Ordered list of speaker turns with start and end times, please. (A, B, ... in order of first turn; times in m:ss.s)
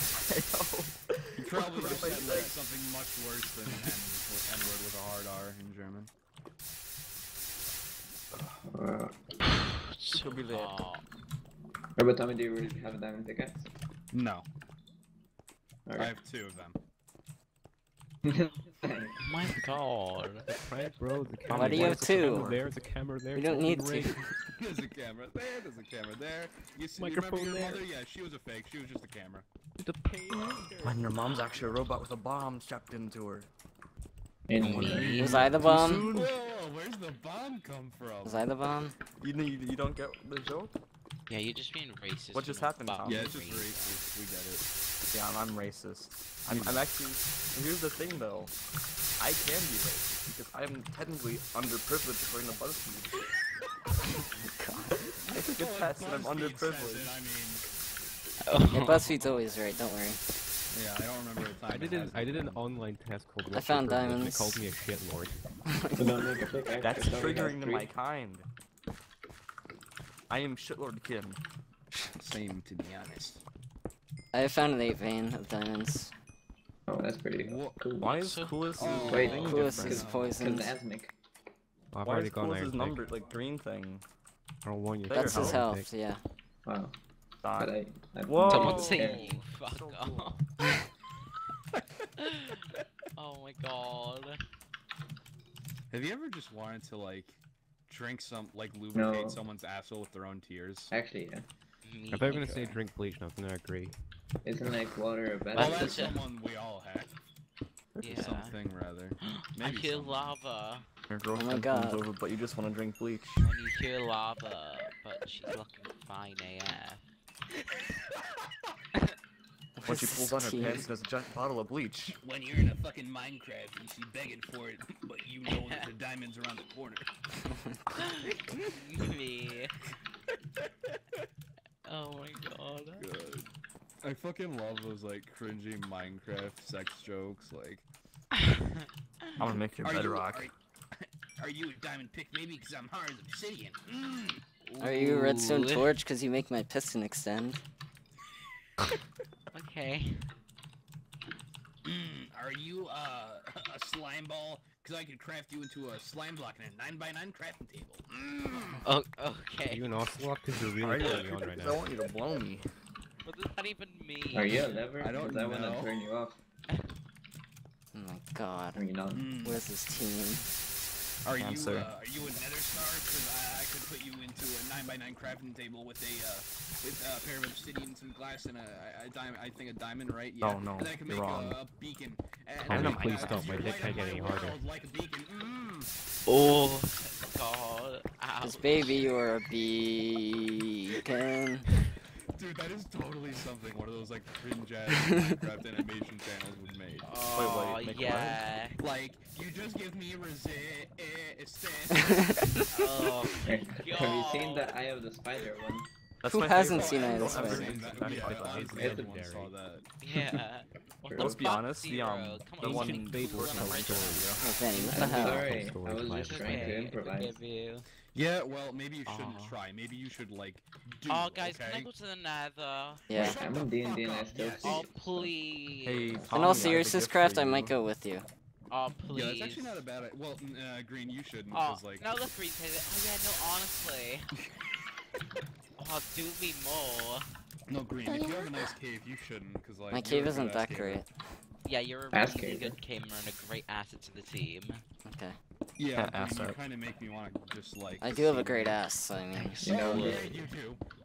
0:00.1-0:02.5 A
0:01.4-0:06.1 B
0:08.6-0:09.1 C
0:09.5-0:11.0 D
0:10.1-0:10.8 A
0:12.0-0:13.7 C
0:14.1-0:14.5 B
0:15.8-0:16.2 C
0:16.0-0:16.8 B
0:18.2-0:19.2 C
0:19.2-0:20.5 D
0:20.5-0:24.1 E
0:21.5-0:22.6 A
0:21.5-0:22.5 F
0:23.3-0:24.3 F
0:24.6-0:29.4 B
0:27.0-0:27.8 E
0:29.8-0:31.9 E
0:30.8-0:33.5 A
0:34.5-0:35.1 C
0:34.6-0:36.3 A
0:34.6-0:35.4 D
0:34.8-0:36.1 F
0:36.1-0:38.5 B
0:38.2-0:39.0 F
0:39.2-0:40.7 A
0:41.3-0:44.0 D
0:42.3-0:43.3 A
0:43.0-0:44.6 B
0:45.1-0:48.5 A
0:46.5-0:46.8 B
0:49.2-0:53.1 A
0:54.4-0:55.4 F
0:55.3-0:57.1 A
0:55.5-0:57.6 B
0:58.4-0:59.1 D
0:58.7-1:00.2 F
0:58.8-0:59.3 B
1:00.7-1:02.6 B
1:01.7-1:05.4 E
1:03.5-1:04.6 F
1:05.7-1:06.0 F
1:06.0-1:07.9 C
1:06.8-1:08.5 A
1:10.3-1:11.4 A
1:12.1-1:13.4 B
1:14.3-1:16.1 F
1:16.9-1:18.1 C
1:17.4-1:17.8 B
1:18.0-1:20.0 A
1:18.2-1:19.5 D
1:18.8-1:20.4 B
1:19.0-1:21.1 C
1:19.5-1:20.8 F
1:21.9-1:23.1 E
1:22.0-1:24.0 A
1:24.6-1:25.9 E
1:25.1-1:25.6 A
1:25.1-1:26.2 F
1:26.6-1:27.0 C
1:27.4-1:27.7 A
1:27.5-1:29.3 C
1:28.3-1:30.4 A
1:28.5-1:30.4 D
1:33.2-1:34.4 D
1:35.9-1:40.9 B
1:38.9-1:39.4 C
1:40.9-1:41.5 C
1:41.8-1:42.8 D
1:42.1-1:44.0 E
1:42.3-1:42.8 B
1:44.4-1:46.2 C
1:45.5-1:46.2 D
1:45.6-1:47.1 B
1:48.0-1:48.6 D
1:48.0-1:50.3 B
1:49.6-1:50.8 D
1:51.1-1:53.4 A
1:51.3-1:52.0 F
1:53.4-1:57.0 D
1:59.8-2:00.9 F
1:59.8-2:02.2 A
2:02.2-2:07.1 B
2:08.3-2:09.7 D
2:11.8-2:13.0 D
2:13.0-2:13.5 B
2:14.0-2:17.9 B
2:18.4-2:18.8 D
2:19.4-2:20.5 A
2:19.8-2:24.4 B
2:24.6-2:25.9 D
2:24.8-2:27.6 F
2:29.5-2:30.2 D
2:31.8-2:38.8 B
2:38.8-2:39.9 D
2:39.7-2:41.8 E
2:40.7-2:42.7 A
2:40.9-2:41.3 B
2:43.2-2:44.9 D
2:44.3-2:46.4 C
2:45.0-2:45.9 B
2:47.9-2:48.8 F
2:48.7-2:49.3 C
2:49.1-2:49.6 B
2:49.4-2:50.5 F
2:51.2-3:05.9 B
2:51.4-2:51.9 A
3:00.4-3:01.6 A
3:02.6-3:04.6 E
3:02.7-3:03.7 A
3:06.2-3:09.1 D
3:08.4-3:11.6 F
3:12.3-3:17.1 B
3:17.0-3:18.8 D
3:17.3-3:18.4 A
3:18.8-3:23.2 B
3:22.7-3:24.7 D
3:23.4-3:25.9 C
3:26.2-3:28.4 A
3:26.3-3:27.7 F
3:26.7-3:29.9 B
3:27.6-3:29.5 E
3:28.6-3:29.1 C
3:30.0-3:34.4 D
3:31.0-3:31.5 C
3:31.1-3:34.3 A
3:32.6-3:34.3 E
3:33.9-3:34.5 B
3:34.4-3:35.5 F
3:34.9-3:37.4 C
3:35.1-3:36.8 E
3:36.2-3:37.8 D
3:38.1-3:41.9 B
3:39.0-3:39.6 D
3:41.1-3:43.1 D
3:43.1-3:43.4 F
3:43.1-3:44.8 B
3:43.2-3:45.3 C
3:44.6-3:46.1 D
3:45.8-3:47.7 A
3:46.0-3:46.8 C
3:46.3-3:48.3 F
3:48.7-3:49.8 D
3:49.1-3:52.0 B
3:51.5-3:54.3 D
3:55.8-3:57.2 D
3:57.7-4:01.0 B
3:58.0-3:58.7 F
3:59.9-4:01.2 F
4:01.6-4:04.8 D
4:02.1-4:02.8 C
4:05.0-4:05.4 F
4:05.8-4:08.8 B
4:05.9-4:06.6 A
4:08.0-4:09.6 F
4:09.3-4:10.0 D
4:09.6-4:10.4 C
4:09.6-4:10.8 B